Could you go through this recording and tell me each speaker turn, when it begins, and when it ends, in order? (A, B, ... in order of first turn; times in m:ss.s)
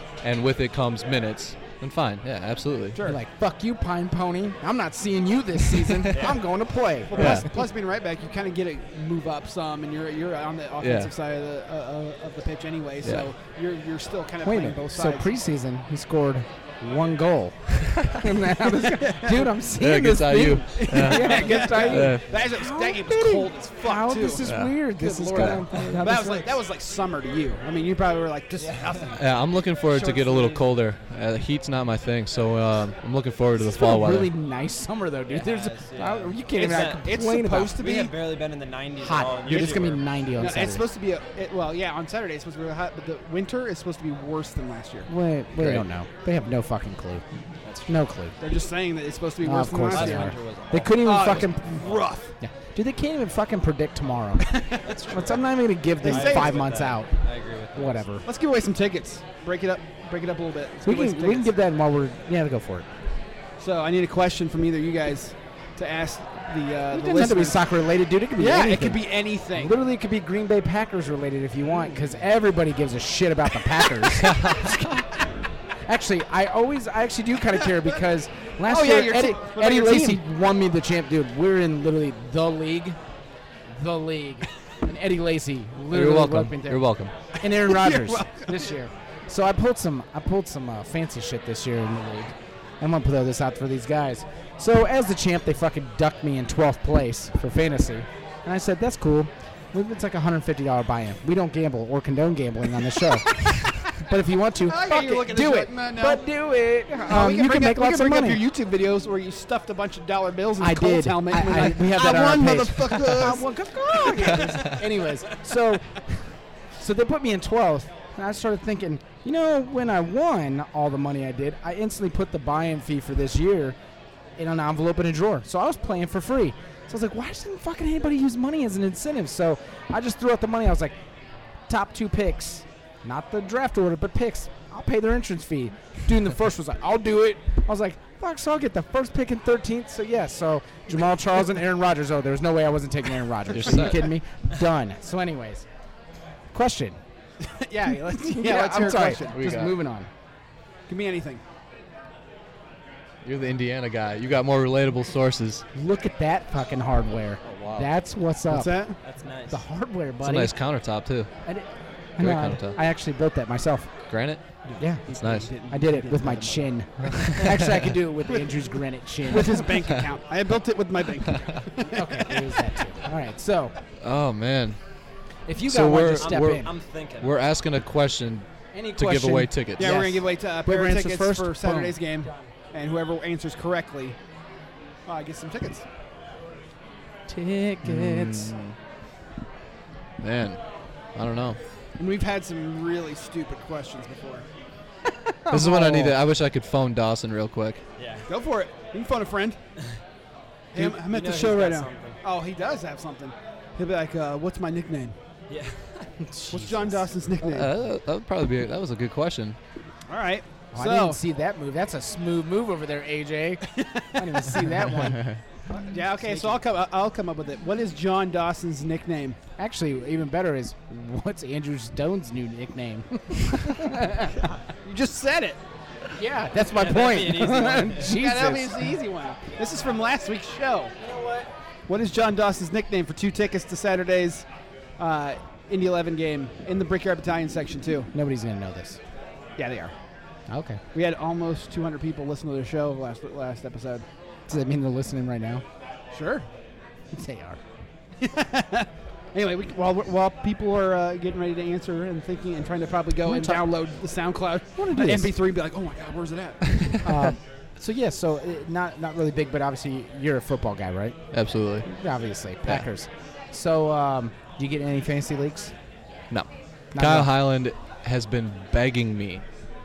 0:00.2-0:03.0 A
0:03.0-0:07.5 B
0:06.1-0:06.4 C
0:07.1-0:15.3 D
0:07.1-0:07.5 A
0:10.8-0:11.1 A
0:13.0-0:13.3 A
0:14.4-0:26.5 B
0:17.8-0:18.2 A
0:18.7-0:19.5 D
0:19.8-0:22.3 A
0:20.8-0:24.5 D
0:21.1-0:22.0 C
0:24.4-0:24.8 A
0:25.0-0:29.2 D
0:25.4-0:25.7 A
0:28.6-0:29.2 C
0:29.1-0:34.3 A
0:29.8-0:30.7 C
0:33.6-0:37.8 B
0:35.3-0:37.0 C
0:36.6-0:38.1 D
0:37.8-0:40.0 C
0:39.0-0:40.8 B
0:39.5-0:45.1 D
0:45.1-0:47.2 B
0:45.6-0:45.8 A
0:47.6-0:48.0 C
0:47.9-0:48.4 B
0:48.4-0:50.3 D
0:49.4-0:51.6 B
0:49.9-0:52.1 C
0:51.0-0:52.3 D
0:52.4-0:54.5 B
0:54.5-0:54.9 D
0:54.8-0:55.4 C
0:55.1-0:57.2 B
0:56.0-0:56.7 D
0:56.0-0:58.1 C
0:57.7-0:58.2 B
0:58.2-1:01.5 D
1:00.8-1:02.9 B
1:03.6-1:07.6 D
1:06.9-1:15.2 B
1:08.4-1:09.8 D
1:14.3-1:14.6 A
1:15.9-1:23.0 B
1:18.6-1:20.2 D
1:23.7-1:26.8 B
1:25.9-1:27.1 A
1:27.4-1:48.4 B
1:27.5-1:28.7 D
1:44.7-1:46.2 D
1:47.0-1:54.7 D
1:50.6-2:03.8 B
1:54.2-1:54.8 A
2:04.4-2:11.0 B
2:11.7-2:25.6 B
2:23.5-2:24.1 A
2:26.5-2:27.0 B
2:27.4-2:29.6 D
2:28.1-2:30.1 B
2:29.3-2:29.7 A
2:30.9-2:31.4 D
2:33.2-2:35.6 A
2:35.8-2:38.7 B
2:37.4-2:37.9 A
2:38.5-2:39.0 D
2:39.0-2:39.6 C
2:39.5-2:40.5 B
2:40.2-2:41.3 A
2:41.5-2:43.9 B
2:42.2-2:42.8 A
2:44.1-2:44.4 A
2:44.7-2:46.7 D
2:44.8-2:45.0 B
2:45.1-2:45.5 A
2:45.7-2:49.8 B
2:47.0-2:48.0 A
2:49.3-2:52.5 D
2:51.9-2:53.7 B
2:54.0-2:54.8 A
2:55.5-2:56.7 B
2:55.6-2:56.7 A
2:56.2-2:57.3 C
2:57.2-3:00.0 A
2:58.7-3:02.3 B
2:59.8-3:04.2 D
3:05.1-3:05.9 D
3:07.3-3:08.5 B
3:07.8-3:08.8 A
3:10.2-3:10.6 A
3:11.2-3:11.6 A
3:12.0-3:14.5 D
3:15.3-3:16.2 B
3:15.5-3:17.8 A
3:18.0-3:18.3 C
3:18.3-3:19.6 D
3:20.7-3:25.2 D
3:20.9-3:22.2 C
3:25.5-3:26.1 C
3:26.2-3:27.1 B
3:26.5-3:27.7 D
3:27.4-3:29.6 A
3:30.1-3:31.2 D
3:30.7-3:35.2 B
3:33.7-3:35.2 D
3:35.7-3:39.4 D
3:36.2-3:36.6 B
3:39.6-3:44.5 B
3:44.8-3:45.6 D
3:46.1-3:49.0 B
3:46.7-3:48.2 C
3:48.0-3:51.0 D
3:51.0-3:51.5 C
3:51.9-3:54.5 D
3:55.0-3:58.1 D
3:58.1-3:59.0 B
3:59.6-4:00.0 D
4:00.5-4:00.8 B
4:00.9-4:04.0 D
4:04.5-4:05.6 B
4:06.1-4:06.5 D
4:07.1-4:07.6 B
4:08.2-4:17.3 D
4:13.2-4:13.6 B
4:14.8-4:15.3 B
4:17.0-4:21.2 B
4:21.3-4:21.9 A
4:21.8-4:25.7 B
4:26.3-4:29.4 A
4:26.9-4:27.3 B